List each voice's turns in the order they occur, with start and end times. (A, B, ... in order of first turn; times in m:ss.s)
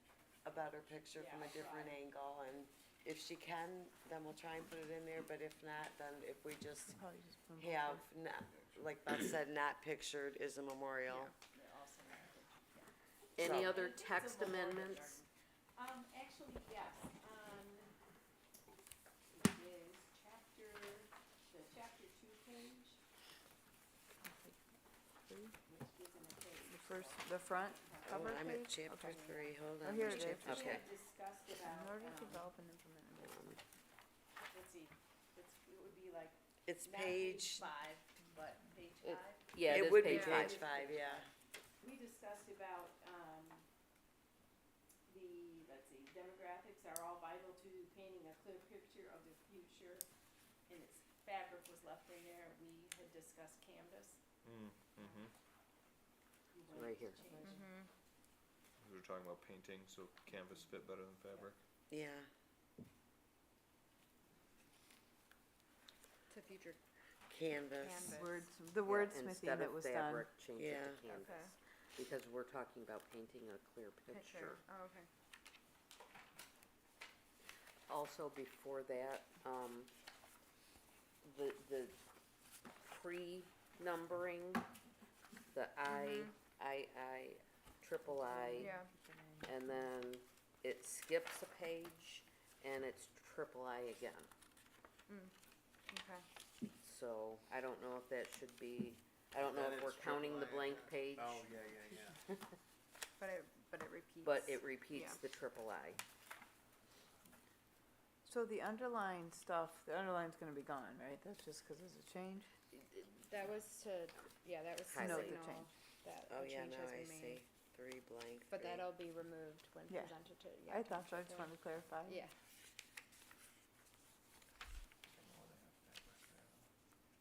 0:00.4-0:07.0 A
0:01.2-0:02.0 B
0:06.9-0:08.0 C
0:07.6-0:11.3 A
0:11.4-0:17.9 B
0:13.4-0:15.2 D
0:13.4-0:13.8 A
0:19.3-0:23.0 B
0:24.2-0:24.6 C
0:25.3-0:25.6 C
0:25.7-0:32.5 B
0:26.7-0:29.2 C
0:28.0-0:30.8 A
0:29.8-0:30.7 C
0:30.4-0:30.9 D
0:31.6-0:33.5 C
0:33.2-0:33.6 D
0:34.5-0:41.3 B
0:36.7-0:37.6 A
0:39.0-0:40.7 D
0:39.7-0:41.3 A
0:41.8-0:43.7 B
0:45.1-0:50.1 B
0:50.7-0:54.2 B
0:54.4-0:55.3 E
0:56.5-0:57.8 B
0:56.7-0:57.2 D
0:57.4-0:57.9 F
0:58.8-1:01.6 E
1:01.9-1:02.3 A
1:06.3-1:06.8 F
1:07.3-1:08.2 A
1:07.8-1:08.5 F
1:08.1-1:10.3 C
1:08.9-1:14.6 D
1:10.6-1:11.0 A
1:11.1-1:11.5 F
1:14.1-1:15.1 F
1:17.9-1:19.9 D
1:21.2-1:22.0 D
1:22.8-1:24.6 D
1:25.5-1:28.8 D
1:25.9-1:26.3 F
1:28.1-1:29.7 C
1:28.6-1:28.9 F
1:29.4-1:34.3 D
1:35.9-1:36.2 F
1:36.8-1:41.6 D
1:39.4-1:42.3 G
1:43.2-1:45.2 F
1:44.2-1:46.0 D
1:48.2-1:52.5 C
1:53.1-1:57.4 F
1:54.8-1:55.4 D
1:55.0-1:55.7 C
1:56.3-1:58.9 A
1:58.5-2:01.5 F
1:59.9-2:00.2 C
2:00.7-2:02.2 C
2:02.1-2:02.3 F
2:05.1-2:06.6 G